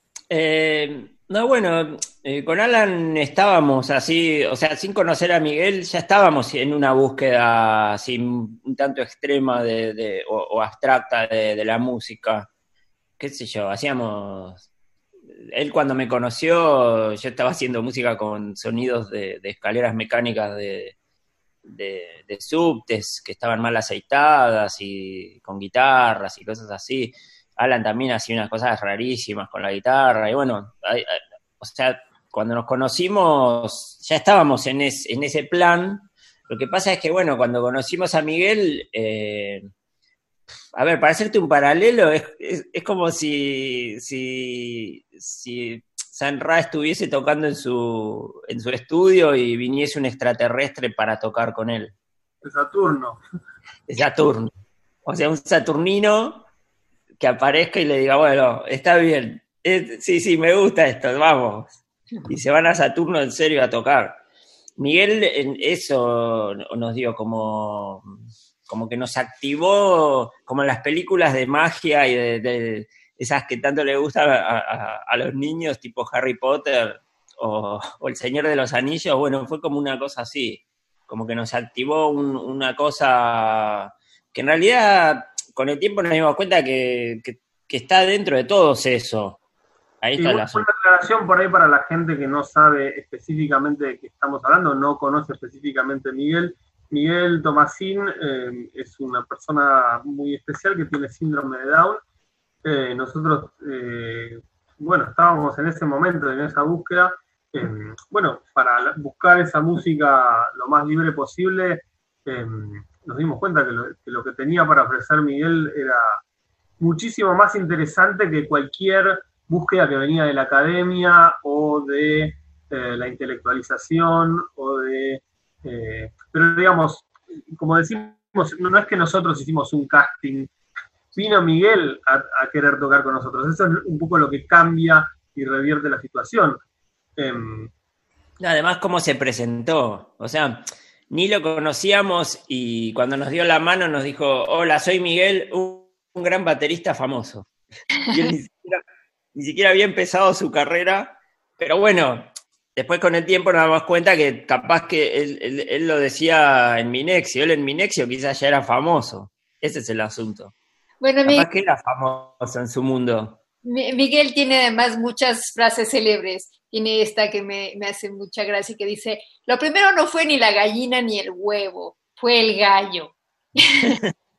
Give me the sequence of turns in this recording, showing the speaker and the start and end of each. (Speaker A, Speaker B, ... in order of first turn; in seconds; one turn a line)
Speaker A: 0.3-12.5
Speaker A: 13.2-14.7
Speaker A: 15.3-21.0
Speaker A: 21.6-39.7
Speaker A: 40.8-51.9
Speaker B: 52.4-53.2
Speaker A: 53.9-54.5
Speaker A: 55.0-56.5
Speaker A: 57.2-61.7
Speaker A: 62.3-64.2
Speaker A: 64.8-68.2
Speaker A: 68.7-89.4
Speaker A: 90.0-90.7
Speaker B: 90.2-102.0
Speaker B: 102.6-116.2
Speaker B: 116.8-130.5
Speaker B: 131.1-136.6
Speaker B: 137.2-137.7
Speaker A: 138.4-147.5
Speaker A: 148.1-148.8
Speaker A: 149.3-160.5
Speaker C: 161.0-161.5
Speaker A: 161.3-163.4
Speaker C: 163.7-174.0